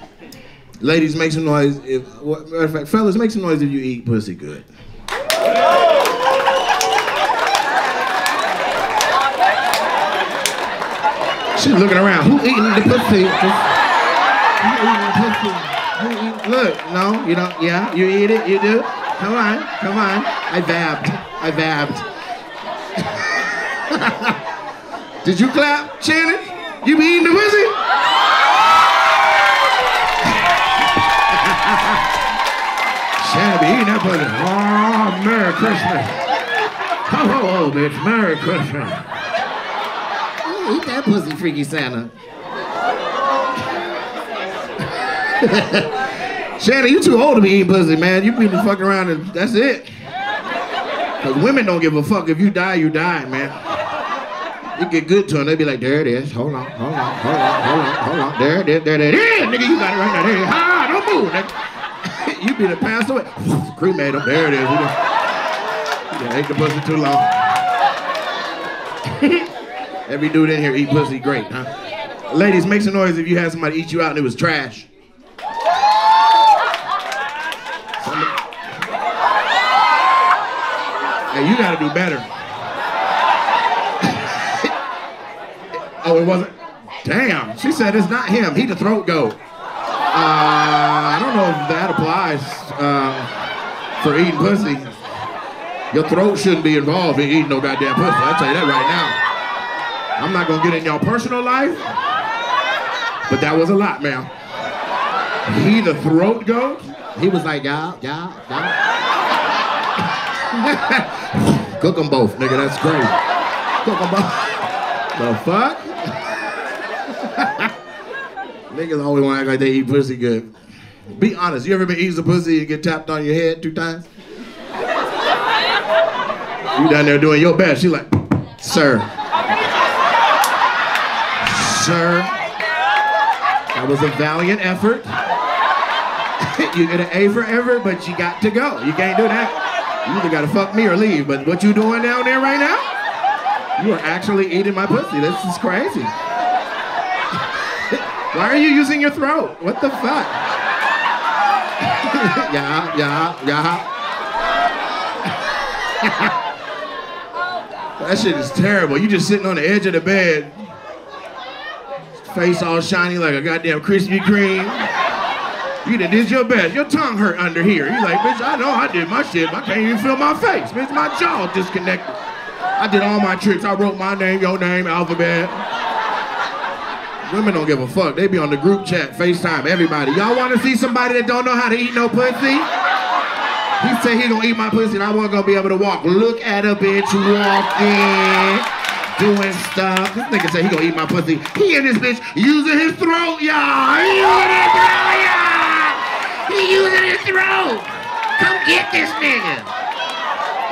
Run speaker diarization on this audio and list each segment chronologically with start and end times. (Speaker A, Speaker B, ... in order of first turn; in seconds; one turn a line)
Speaker A: 0.8-4.7
Speaker A: 11.6-13.8
Speaker A: 14.6-22.1
Speaker A: 23.0-24.4
Speaker A: 25.2-27.8
Speaker A: 31.3-32.0
Speaker A: 33.2-36.2
Speaker A: 37.0-39.1
Speaker A: 40.4-42.1
Speaker A: 45.2-46.0
Speaker A: 46.6-49.9
Speaker A: 51.2-53.6
Speaker A: 54.8-61.5
Speaker A: 62.1-65.0
Speaker A: 66.1-67.6
Speaker A: 69.0-69.5
Speaker A: 70.1-71.7
Speaker A: 72.3-74.9
Speaker A: 78.0-78.4
Speaker A: 81.3-82.3
Speaker A: 84.0-84.7
Speaker A: 86.0-89.4
Speaker A: 90.1-95.0
Speaker A: 95.9-99.2
Speaker A: 100.2-101.9
Speaker A: 103.3-104.3
Speaker A: 105.5-108.8
Speaker A: 110.4-113.2
Speaker A: 113.8-116.3
Speaker A: 117.1-117.7
Speaker A: 118.7-120.5
Speaker A: 121.1-124.1
Speaker A: 126.7-129.1
Speaker A: 131.4-132.4
Speaker A: 133.7-135.2
Speaker A: 136.4-142.9
Speaker A: 143.8-146.2
Speaker A: 147.5-150.4
Speaker A: 151.8-153.9
Speaker A: 156.0-156.3
Speaker A: 158.0-160.7
Speaker A: 162.2-164.9
Speaker A: 165.8-172.2
Speaker A: 172.8-175.6
Speaker A: 177.3-182.7
Speaker A: 183.8-199.7